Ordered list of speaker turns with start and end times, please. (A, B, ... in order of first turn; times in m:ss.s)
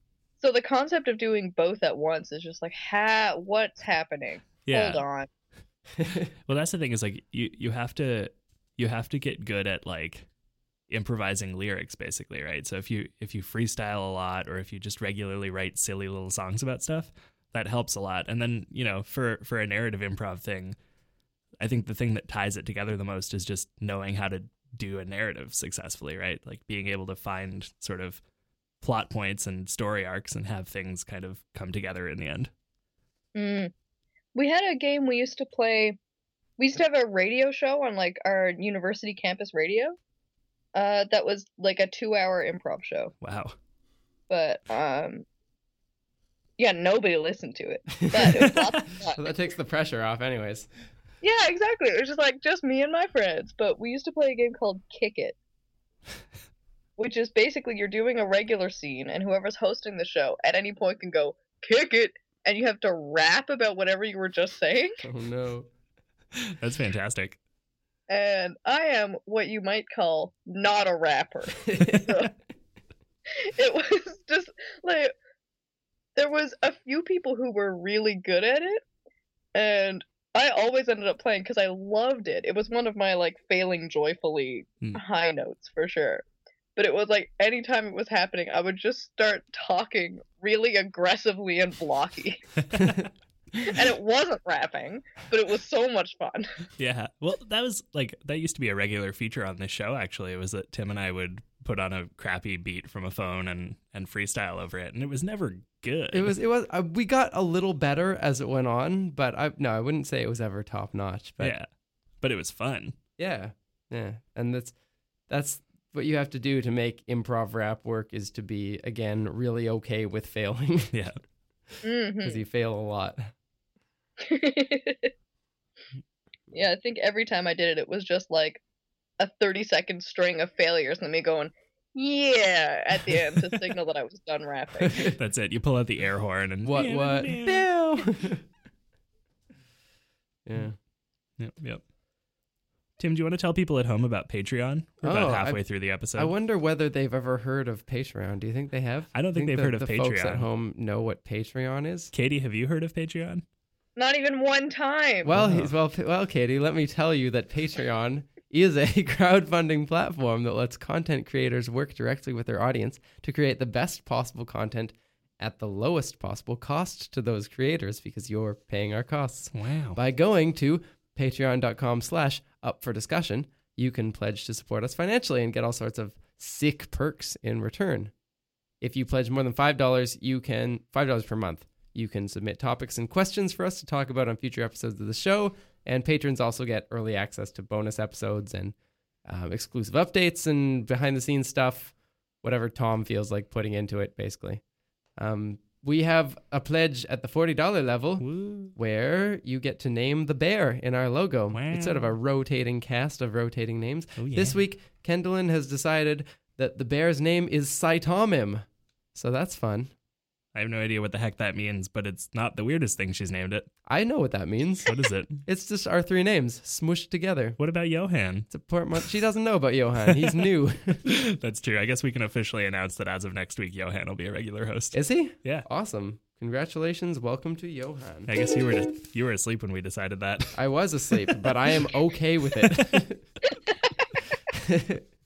0:00.4-0:05.3 A
0:04.6-0:05.0 B
0:06.0-0:06.3 C
0:06.5-0:10.2 B
0:10.9-0:20.8 B
0:21.6-0:28.2 B
0:28.8-0:32.5 B
0:33.3-0:33.7 A
0:34.3-0:36.0 A
0:36.6-0:40.0 A
0:40.7-0:43.1 A
0:43.2-0:43.6 B
0:44.3-0:45.2 A
0:46.6-0:49.3 A
0:48.0-0:48.6 C
0:49.1-0:50.7 C
0:51.2-0:55.4 A
0:57.0-1:05.0 A
1:05.0-1:05.7 C
1:06.4-1:07.4 B
1:08.1-1:12.3 A
1:11.6-1:12.2 C
1:13.3-1:15.1 A
1:16.2-1:18.8 A
1:19.5-1:26.2 A
1:26.8-1:32.4 A
1:32.7-1:33.0 B
1:33.6-1:36.5 A
1:36.8-1:46.3 B
1:46.1-1:51.6 C
1:51.4-1:51.7 B
1:52.2-1:53.0 B
1:53.2-1:54.7 C
1:55.3-2:00.9 C
2:00.9-2:01.2 B
2:01.8-2:02.4 A
2:02.2-2:03.3 C
2:04.2-2:05.1 A
2:06.5-2:08.6 A
2:09.2-2:15.1 A
2:14.9-2:15.1 C
2:15.0-2:17.7 B
2:16.6-2:18.4 C
2:20.4-2:20.8 C
2:21.4-2:21.8 B
2:23.0-2:26.3 B
2:25.0-2:25.6 C
2:26.1-2:32.1 C
2:29.1-2:30.5 B
2:32.1-2:33.4 B
2:34.0-2:35.4 A
2:35.2-2:58.1 C
2:35.3-2:35.7 B
2:49.5-2:50.0 B
2:58.8-3:08.7 C
3:09.2-3:14.6 C
3:15.2-3:29.9 C
3:18.2-3:18.7 B
3:21.5-3:22.1 B
3:24.2-3:24.6 B
3:30.5-3:33.7 B
3:33.9-3:34.9 C
3:34.8-3:35.4 B
3:35.4-3:37.6 C
3:37.6-3:38.5 B
3:38.5-3:41.0 C
3:40.1-3:40.4 B
3:41.0-3:45.6 B
3:44.9-3:48.3 C
3:48.3-3:50.6 B
3:50.5-3:53.2 C
3:51.2-3:51.5 B
3:52.6-3:53.0 B
3:53.5-3:54.0 A
3:54.5-3:55.0 C